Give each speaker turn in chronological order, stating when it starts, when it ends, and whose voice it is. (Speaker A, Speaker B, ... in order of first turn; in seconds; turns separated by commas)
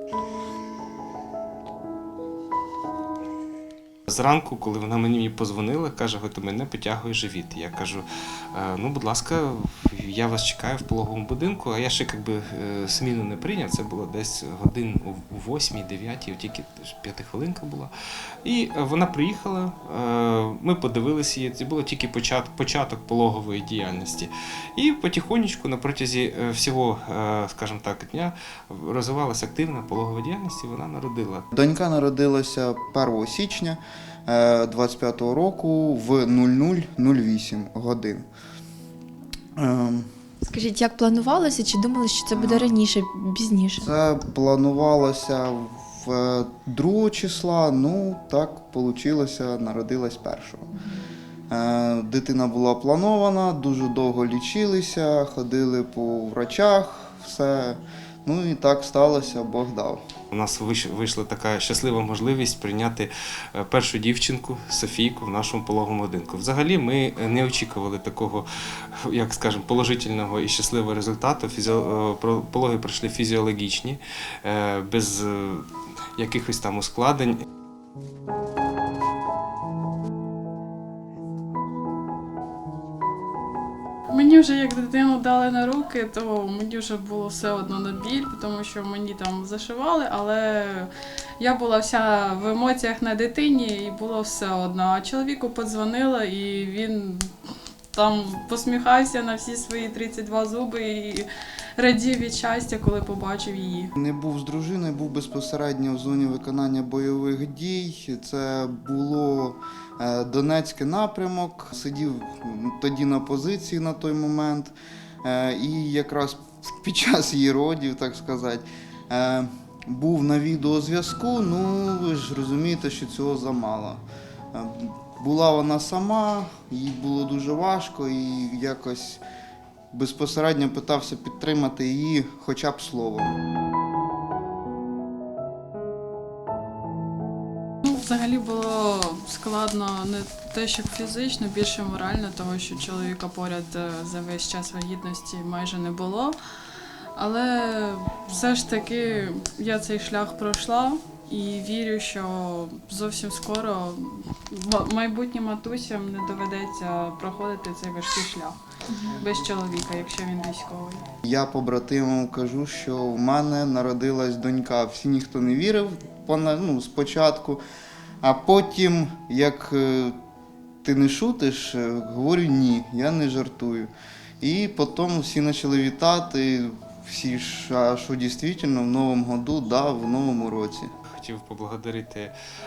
Speaker A: 4.1-17.9, Speaker A: 18.4-31.4, Speaker B: 31.5-38.3, Speaker B: 39.6-40.1, Speaker C: 40.4-43.9, Speaker B: 42.3-42.8, Speaker B: 43.8-50.7, Speaker B: 51.5-60.0, Speaker A: 60.3-68.5, Speaker A: 69.0-77.4, Speaker D: 84.1-97.3, Speaker D: 97.9-103.9, Speaker B: 104.0-129.2, Speaker B: 129.9-133.4, Speaker D: 137.8-146.4, Speaker D: 147.2-161.0, Speaker B: 161.2-167.6, Speaker B: 168.2-170.2, Speaker B: 170.8-180.9, Speaker A: 181.2-182.3